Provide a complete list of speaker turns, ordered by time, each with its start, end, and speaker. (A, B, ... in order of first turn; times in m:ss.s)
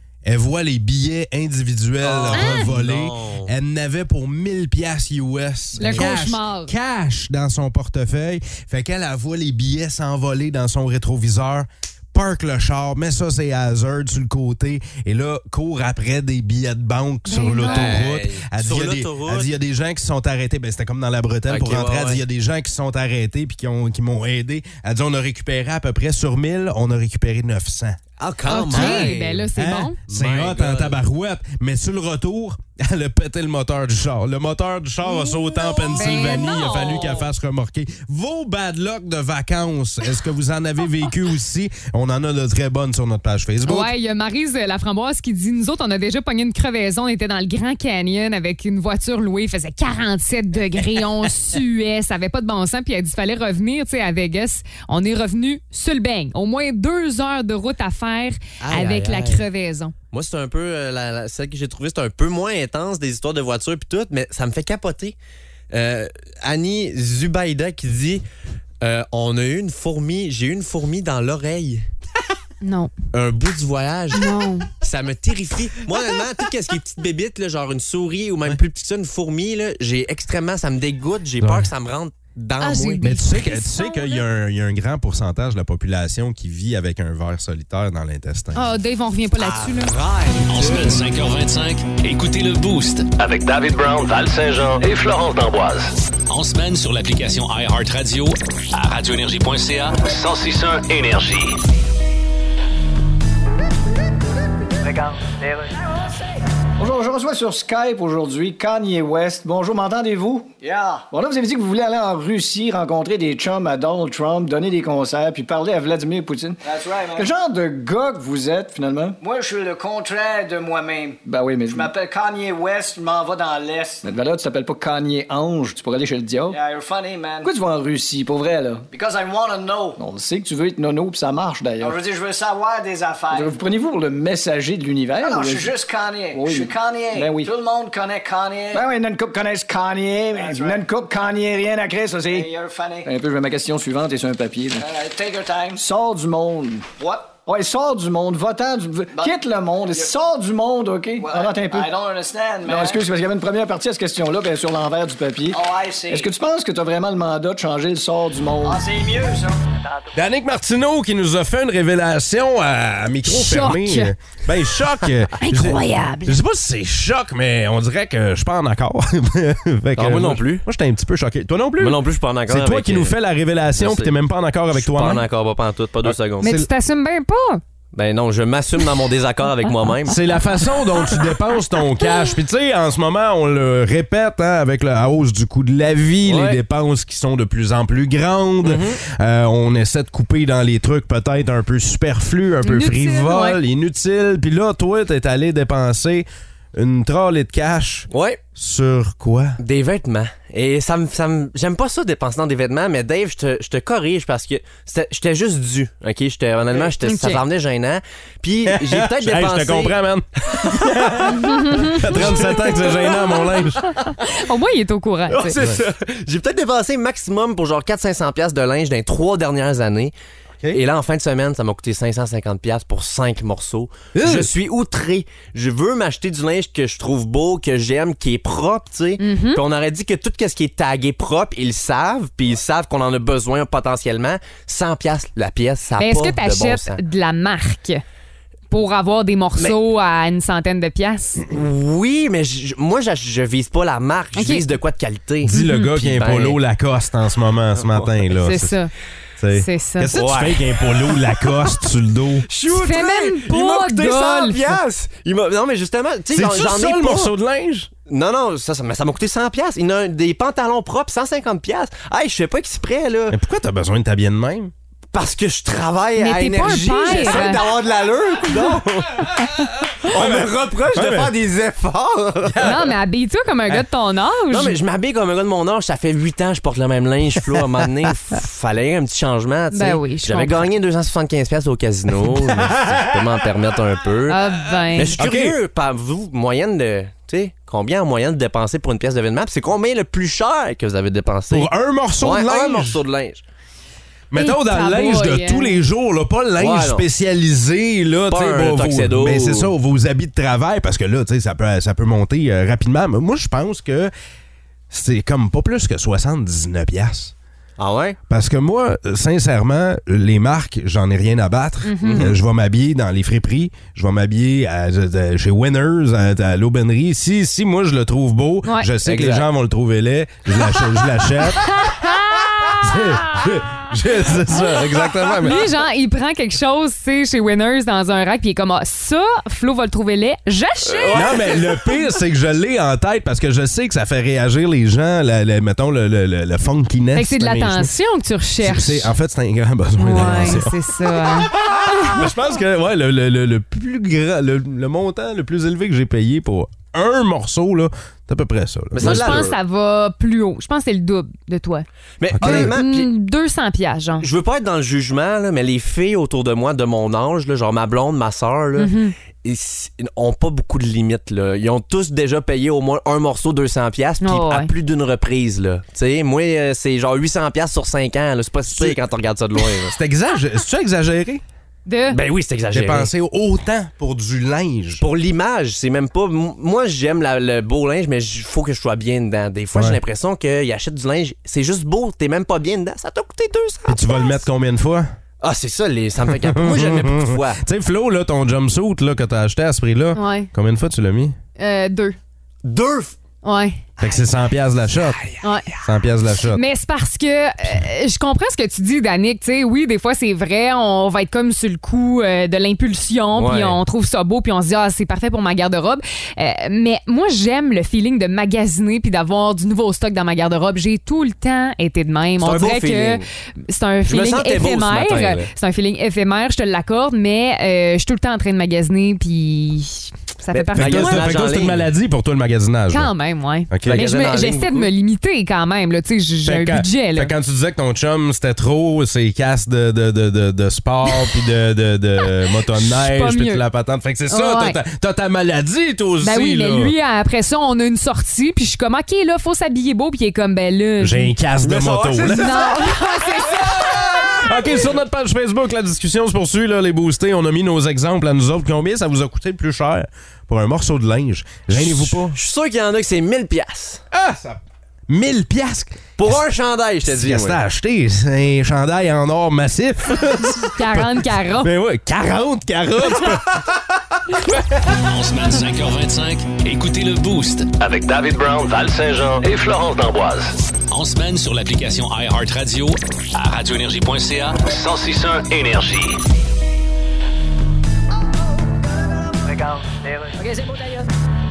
0:00.2-0:28.0 A
0:02.0-0:03.5 B
0:02.3-0:02.7 C
0:05.8-0:06.7 C
0:17.3-0:18.0 C
0:17.6-0:19.5 B
0:21.5-0:22.2 B
0:28.2-0:29.4 B
0:28.5-0:30.0 C
0:28.6-0:43.9 A
0:30.1-0:31.0 B
0:35.2-0:37.2 C
0:43.6-0:59.9 C
0:58.6-0:59.4 B
1:00.1-1:05.2 B
1:05.7-1:08.2 B
1:08.8-1:11.9 B
1:12.6-1:12.9 C
1:13.1-1:23.1 B
1:14.1-1:14.7 C
1:21.4-1:21.7 A
1:22.6-1:24.2 C
1:23.0-1:28.7 A
1:28.6-1:30.0 C
1:29.4-1:31.0 B
1:30.5-1:33.1 D
1:33.2-1:35.9 E
1:36.3-1:40.1 D
1:40.1-1:41.6 E
1:44.8-1:45.9 F
1:46.8-1:50.5 G
1:50.6-1:51.1 F
1:51.1-1:59.2 G
1:56.6-1:57.3 F
1:59.2-2:04.1 F
2:01.2-2:01.9 G
2:04.0-2:06.6 G
2:06.5-2:07.5 F
2:07.4-2:08.9 G
2:08.9-2:10.0 F
2:10.0-2:12.0 G
2:11.8-2:13.6 F
2:13.3-2:15.7 G
2:15.2-2:18.9 F
2:16.3-2:17.5 G
2:18.7-2:22.5 G
2:20.3-2:20.9 F
2:22.3-2:23.1 F
2:23.0-2:24.9 G
2:24.8-2:25.8 F
2:25.8-2:31.9 G
2:27.0-2:27.4 F
2:29.1-2:30.1 F
2:31.2-2:33.0 F
2:32.6-2:38.8 G
2:35.5-2:36.3 F
2:38.6-2:40.2 F
2:40.2-2:55.3 A
2:43.3-2:44.1 C
2:45.4-2:46.4 C
2:50.0-2:50.7 B
2:51.8-2:53.2 B
2:53.8-2:54.1 B
2:54.7-2:56.5 B
2:56.0-2:56.7 A
2:56.4-2:57.6 C
2:57.9-3:00.2 B
3:00.1-3:19.6 A
3:06.3-3:06.6 B
3:08.6-3:09.0 B
3:12.6-3:13.6 C
3:18.1-3:18.4 B
3:19.6-3:30.0 B
3:27.0-3:27.4 C
3:28.7-3:33.9 A
3:30.5-3:31.3 B
3:31.3-3:35.6 C
3:32.1-3:33.0 B
3:35.3-3:40.1 B
3:35.6-3:35.8 A
3:40.7-3:57.0 B
3:44.1-3:44.5 A
3:49.2-3:49.6 C
3:56.0-3:58.0 C
3:58.7-4:01.4 C
4:01.5-4:06.6 B
4:04.4-4:04.6 C
4:05.4-4:08.8 A
4:05.5-4:05.9 C
4:07.8-4:08.2 B
4:08.4-4:08.9 C
4:09.4-4:12.5 A
4:09.5-4:10.2 C
4:10.2-4:11.5 B
4:12.5-4:17.3 B
4:12.7-4:14.6 C
4:16.3-4:17.9 A
4:18.1-4:23.4 B
4:23.3-4:24.7 A
4:25.1-4:29.4 B
4:26.2-4:27.7 C
4:30.0-4:32.9 B
4:30.0-4:31.3 A
4:32.5-4:32.9 A
4:32.6-4:34.8 C
4:34.5-4:44.4 B
4:39.7-4:40.7 C
4:42.3-4:43.2 A
4:44.3-4:45.2 C
4:44.9-4:51.7 B
4:45.2-4:45.6 A
4:51.5-4:53.0 A
4:52.2-4:53.4 B
4:54.3-5:04.1 A
4:54.4-4:55.8 C
4:56.6-4:57.0 B
4:58.3-4:59.7 B
5:04.9-5:07.3 A
5:07.8-5:08.2 B
5:08.3-5:21.9 A
5:11.8-5:12.3 C
5:12.0-5:12.4 B
5:19.0-5:19.5 B
5:21.7-5:23.5 C
5:22.7-5:25.7 A
5:25.4-5:31.4 C
5:30.8-5:31.8 B
5:31.1-5:37.9 A
5:37.2-5:39.1 C
5:38.6-5:49.5 A
5:40.0-5:42.2 C
5:48.9-5:49.6 B
5:49.0-5:51.9 C
5:52.2-5:53.1 B
5:52.3-5:52.8 A
5:52.4-5:54.3 C
5:54.2-6:10.0 B
5:58.8-5:59.1 C
6:04.2-6:04.7 C
6:08.7-6:09.0 A
6:09.9-6:11.4 A
6:11.9-6:12.2 C
6:12.1-6:13.1 B
6:12.7-6:15.0 A
6:15.0-6:24.3 B
6:19.7-6:20.0 A
6:23.9-6:25.1 A
6:25.4-6:27.6 B
6:26.3-6:31.4 A
6:30.2-6:30.5 C
6:31.6-6:32.2 C
6:32.6-6:33.2 B
6:33.4-6:33.8 C
6:34.0-6:35.2 A
6:35.1-6:35.8 B
6:35.4-6:35.7 C
6:35.8-6:36.6 A
6:36.5-7:01.3 C
6:43.3-6:43.8 B
6:52.4-6:53.3 B
6:54.1-6:55.5 B
7:00.5-7:01.9 B
7:00.8-7:03.1 A
7:02.9-7:07.3 C
7:03.7-7:04.0 A
7:03.8-7:04.9 B
7:06.4-7:17.0 A
7:12.7-7:13.6 C
7:14.3-7:14.8 C
7:16.2-7:21.4 C
7:21.0-7:22.6 A
7:21.6-7:24.9 B
7:22.3-7:24.4 C
7:24.2-7:32.4 A
7:31.7-7:34.0 B
7:34.1-7:36.4 A
7:36.2-7:37.6 B
7:37.1-7:44.0 A
7:40.6-7:41.7 C
7:44.9-7:47.7 D
7:47.8-7:50.6 E
7:50.9-7:54.8 D
7:54.7-7:56.2 E
7:59.4-8:00.5 F
8:00.4-8:01.1 G